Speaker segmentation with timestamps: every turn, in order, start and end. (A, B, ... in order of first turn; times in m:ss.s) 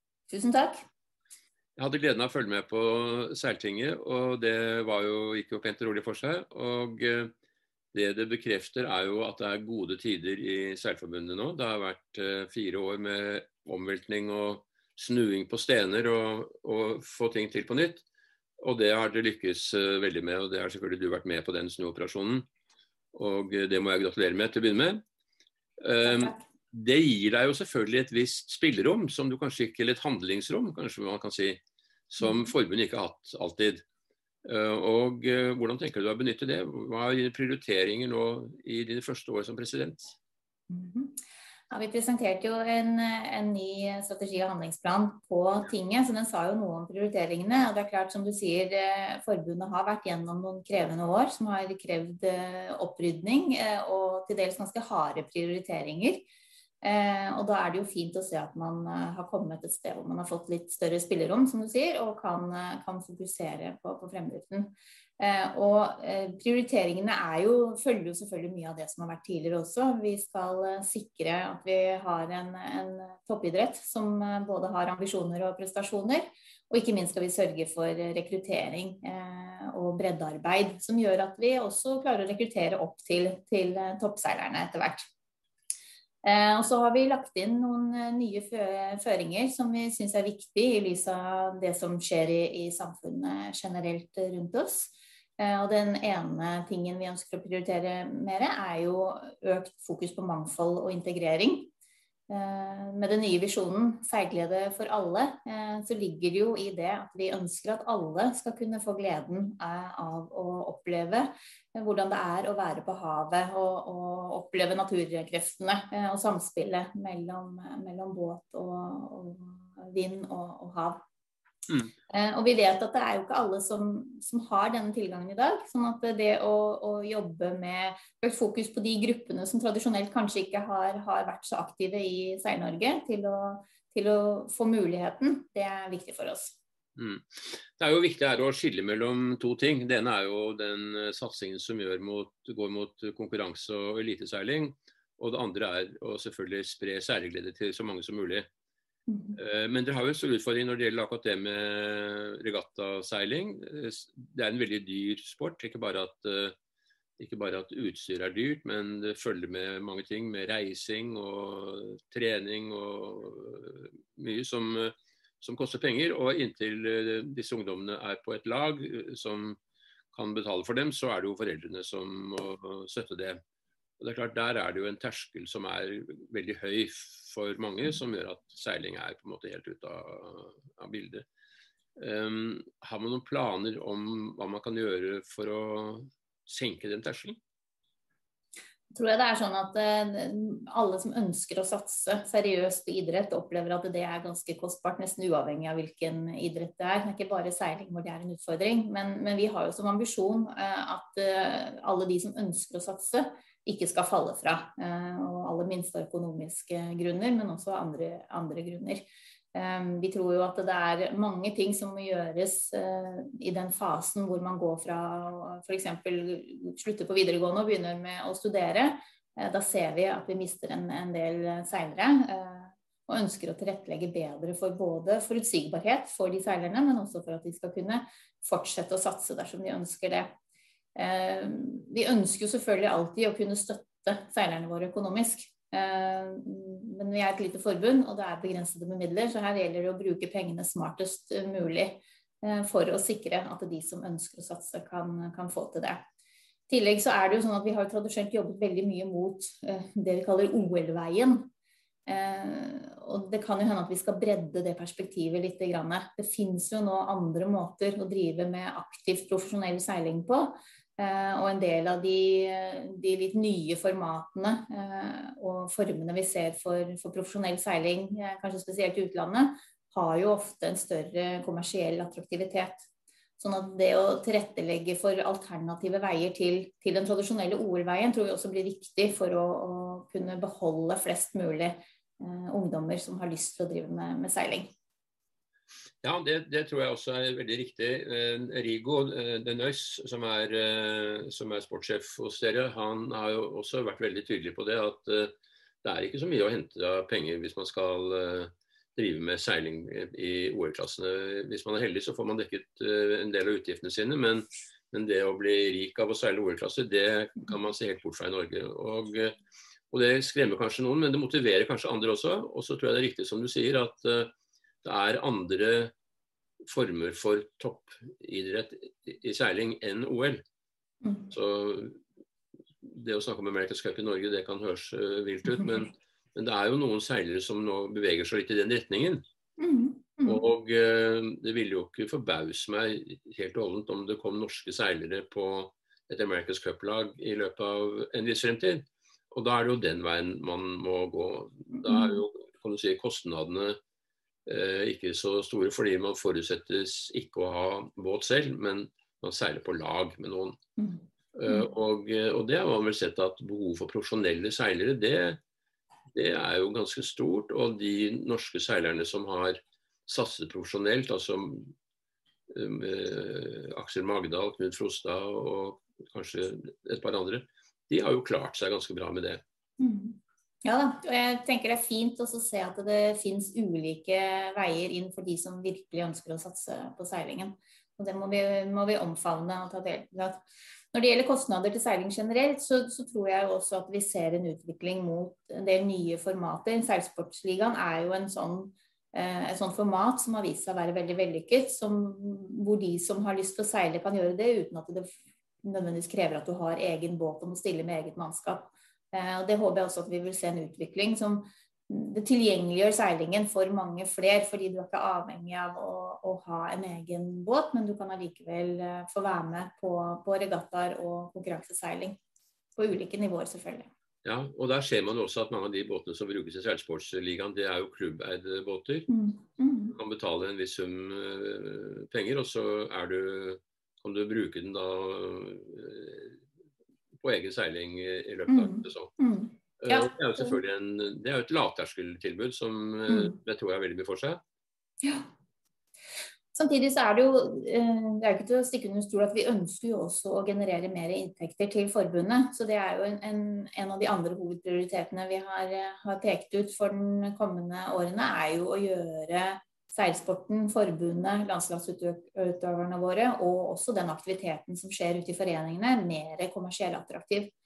0:00.3-0:00.8 A
0:01.8-0:07.3 B
0:07.9-0:18.0 B
0:18.6-0:22.5 B
0:23.1-0:25.0 B
0:25.8-0:33.8 B
0:26.0-0:26.4 A
0:32.2-0:32.5 A
0:34.4-0:40.2 B
0:40.7-0:41.2 A
0:41.7-0:56.3 A
0:56.8-1:25.1 A
1:26.2-1:41.7 A
1:42.3-2:01.0 A
2:02.1-2:16.6 A
2:17.0-2:28.5 B
2:29.1-2:29.4 A
2:29.4-2:36.6 B
2:37.2-2:49.6 B
2:50.1-2:53.4 B
2:54.0-3:01.2 B
3:02.0-3:07.4 B
3:08.9-3:50.3 A
3:51.0-4:06.0 A
4:06.7-4:11.5 A
4:12.1-4:32.9 A
4:33.4-4:44.7 A
4:46.0-5:09.3 B
5:09.9-5:14.3 B
5:14.8-5:15.9 B
5:16.7-5:20.4 B
5:21.0-5:21.3 A
5:21.3-5:22.0 B
5:22.8-5:29.2 B
5:25.6-5:25.8 A
5:29.6-5:30.4 A
5:30.2-5:43.8 B
5:41.7-5:42.2 A
5:44.4-5:50.6 B
5:50.8-5:51.7 A
5:51.3-5:55.4 B
5:56.1-6:01.7 B
6:02.5-6:09.4 B
6:09.8-6:35.1 A
6:35.6-6:52.2 A
6:52.8-6:53.9 A
6:54.2-6:59.1 B
6:59.1-7:00.0 A
6:59.9-7:06.4 B
7:07.2-7:09.1 B
7:08.5-7:10.6 A
7:09.8-7:14.4 B
7:13.1-7:13.4 A
7:15.0-7:15.3 A
7:16.5-7:37.5 A